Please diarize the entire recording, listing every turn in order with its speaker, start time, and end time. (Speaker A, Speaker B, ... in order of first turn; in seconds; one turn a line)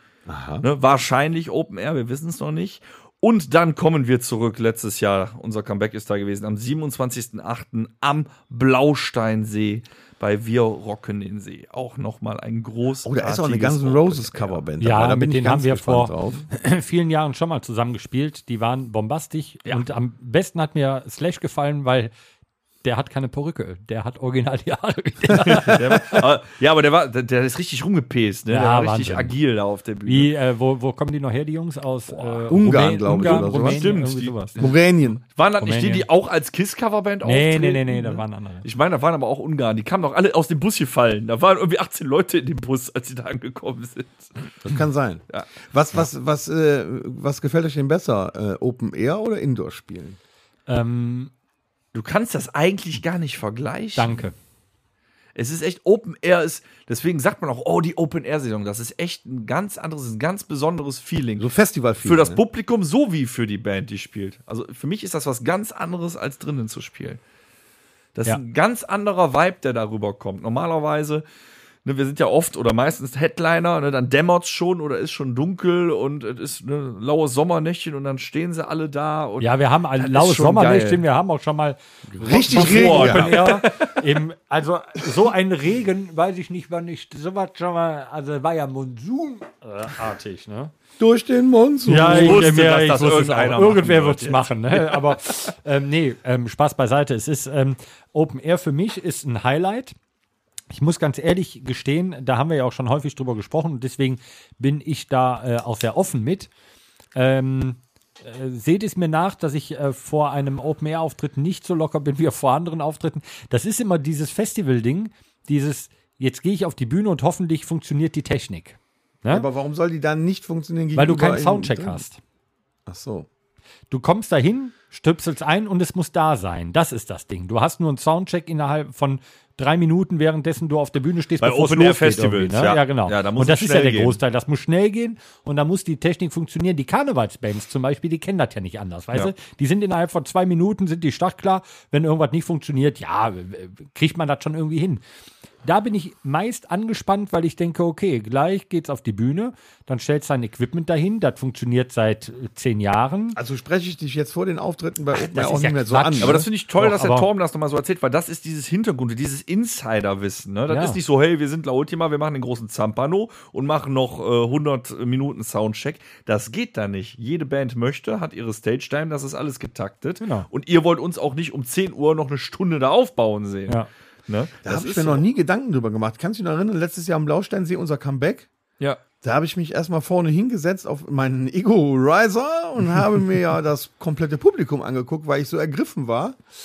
Speaker A: 0.3-0.6
Speaker B: 0.6-14.6
Speaker A: 13.0-16.4
Speaker C: 14.8-22.1
Speaker C: 22.8-26.2
Speaker B: 25.3-30.3
Speaker C: 28.5-29.4
Speaker C: 30.1-34.6
Speaker B: 32.1-32.5
Speaker A: 32.5-33.9
Speaker B: 33.1-44.3
Speaker A: 34.6-35.2
Speaker C: 35.6-36.0
Speaker C: 37.2-38.6
Speaker A: 44.6-50.2
Speaker C: 50.7-51.3
Speaker B: 51.9-54.2
Speaker C: 54.0-54.3
Speaker B: 55.3-61.5
Speaker A: 61.4-62.4
Speaker B: 62.0-67.2
Speaker B: 68.1-71.2
Speaker B: 71.8-81.0
Speaker C: 79.4-90.7
Speaker A: 82.1-83.5
Speaker B: 82.3-84.0
Speaker A: 91.0-92.5
Speaker C: 91.8-99.9
Speaker B: 92.0-95.3
Speaker C: 100.7-106.5
Speaker C: 107.1-119.5
Speaker A: 119.3-122.0
Speaker C: 121.0-122.2
Speaker A: 122.9-123.3
Speaker C: 123.9-145.0
Speaker B: 131.4-134.2
Speaker C: 145.6-153.4
Speaker A: 153.3-156.4
Speaker C: 155.1-157.3
Speaker B: 156.2-175.2
Speaker C: 160.7-161.0
Speaker C: 170.2-170.5
Speaker A: 174.6-178.5
Speaker A: 179.2-186.4